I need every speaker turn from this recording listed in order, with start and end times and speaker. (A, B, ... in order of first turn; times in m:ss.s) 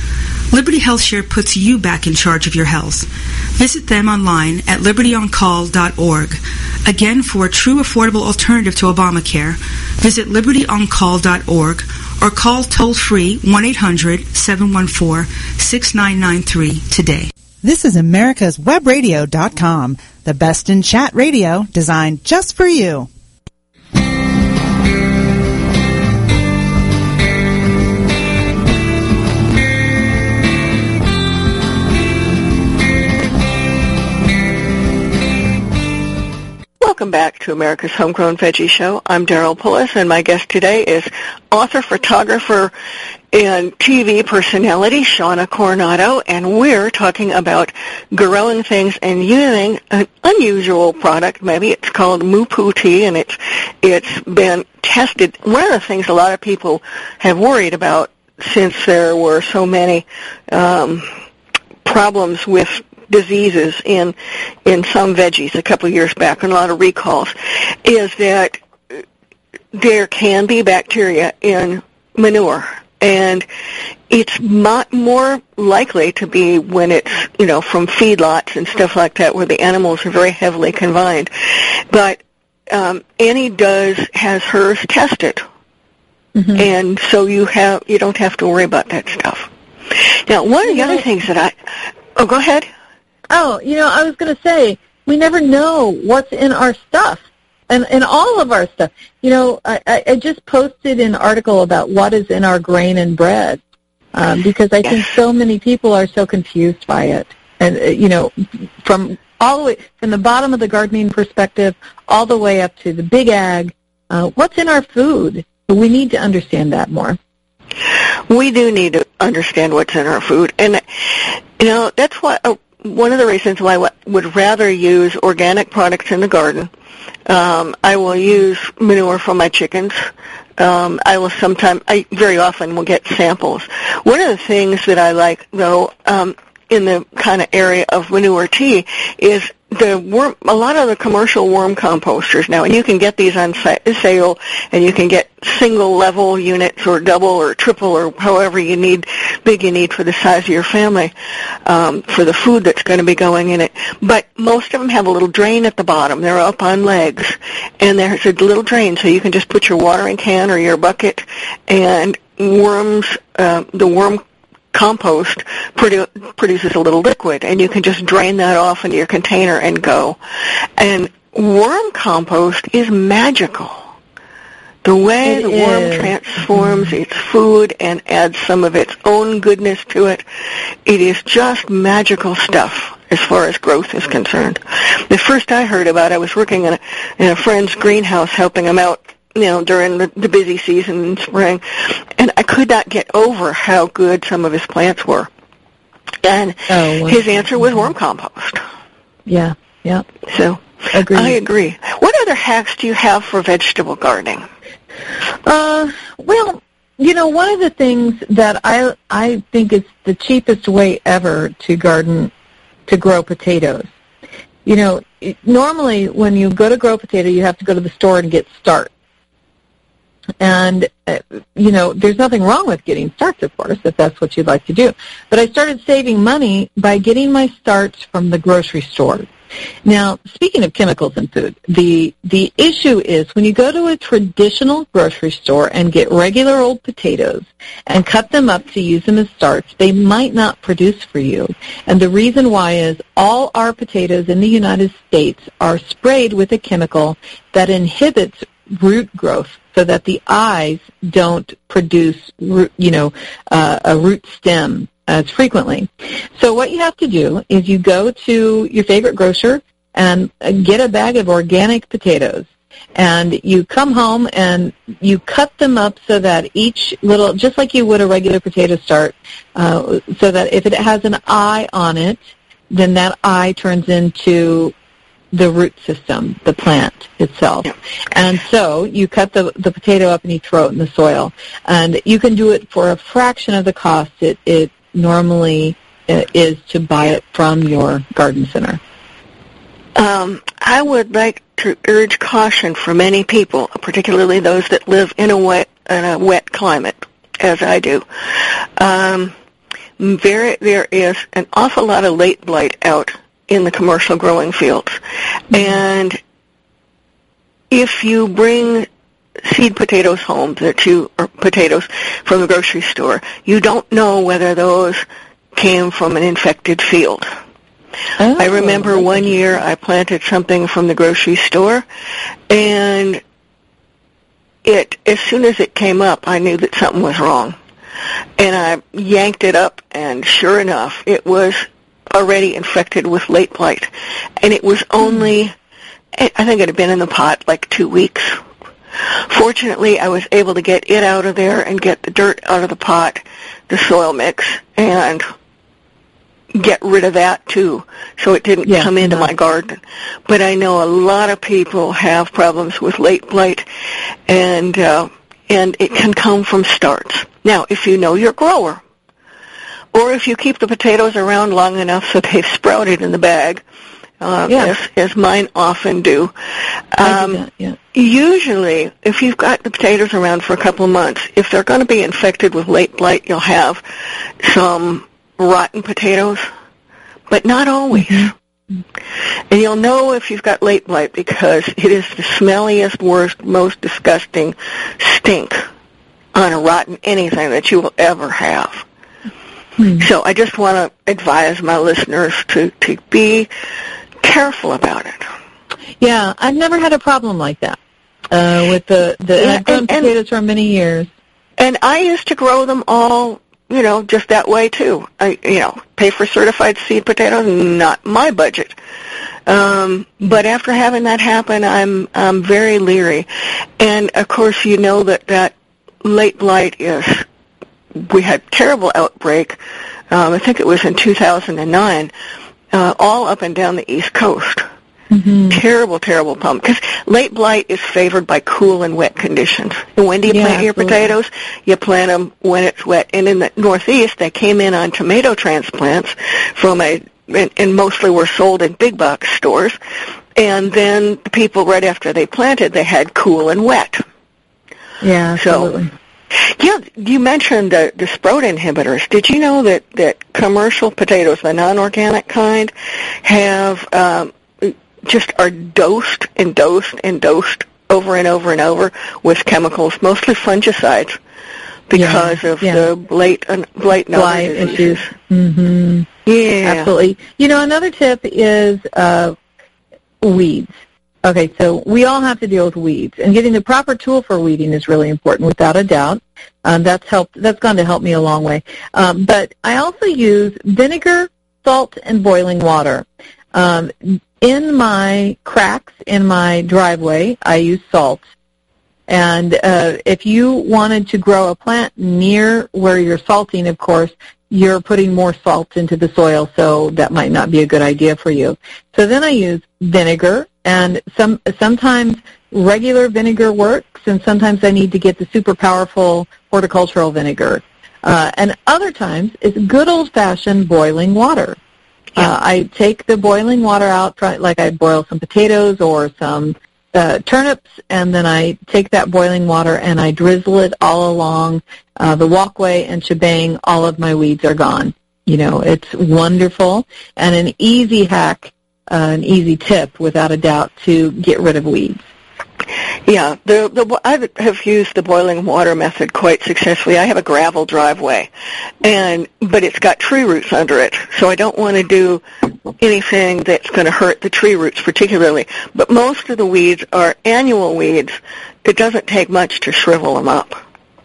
0:00.5-0:17.3 A
0:17.6-0:23.1 B
0:36.8-0:42.7 C
0:43.3-1:01.1 C
1:01.8-1:09.0 C
1:09.7-1:13.5 C
1:14.1-1:25.4 C
1:26.4-1:26.6 D
1:26.5-1:31.5 C
1:30.7-1:31.0 D
1:32.1-1:32.7 C
1:33.3-1:43.6 D
1:44.1-1:57.2 D
1:58.3-2:06.7 C
2:07.3-2:31.1 C
2:31.6-2:50.2 C
2:50.8-2:53.8 C
2:54.8-3:00.2 C
2:55.2-2:56.8 D
3:00.8-3:15.3 C
3:16.2-3:18.6 C
3:16.7-3:17.8 D
3:19.3-3:20.0 D
3:20.3-3:24.5 C
3:20.9-3:21.4 D
3:25.4-3:32.3 D
3:32.9-3:33.9 D
3:34.6-3:38.9 D
3:40.4-3:49.3 D
3:49.8-4:34.7 D
4:35.3-4:48.8 D
4:50.0-4:59.3 C
5:00.0-5:05.0 C
5:05.5-5:06.2 C
5:07.7-5:08.9 C
5:09.4-5:17.3 C
5:18.2-5:19.5 D
5:18.4-5:21.8 C
5:22.5-5:23.2 C
5:24.6-5:27.6 C
5:28.4-5:35.5 C
5:36.1-5:38.4 C
5:39.0-5:45.2 C
5:46.5-5:53.6 C
5:48.6-5:49.3 D
5:54.3-5:58.8 C
5:59.9-6:03.6 C
6:04.2-6:06.3 C
6:06.9-6:07.4 C
6:07.0-6:07.8 D
6:07.9-6:13.8 C
6:14.4-6:16.4 C
6:17.3-6:18.3 C
6:18.0-6:18.3 D
6:19.5-6:25.6 C
6:26.3-6:28.8 C
6:29.8-6:30.0 D
6:30.0-6:33.5 C
6:34.2-6:35.2 C
6:36.0-6:37.8 D
6:38.3-6:41.1 D
6:39.4-6:40.1 C
6:41.6-6:48.8 C
6:49.4-6:53.3 C
6:53.8-6:57.2 C
6:57.9-6:59.6 C
7:00.1-7:02.1 C
7:02.7-7:04.6 C
7:05.1-7:05.6 D
7:05.5-7:19.8 C
7:10.3-7:11.1 D
7:20.3-7:24.0 C
7:25.0-7:25.9 D
7:25.4-7:25.7 C
7:26.3-7:41.2 C
7:41.9-7:45.1 C
7:41.9-7:42.9 D
7:44.1-7:46.1 D
7:46.2-7:46.9 C
7:46.6-7:49.4 D
7:50.2-7:50.7 D
7:51.2-8:08.2 D
8:09.1-8:31.6 D
8:32.2-8:52.0 D
8:53.0-8:58.3 C
8:58.8-9:02.2 C
9:02.8-9:10.6 C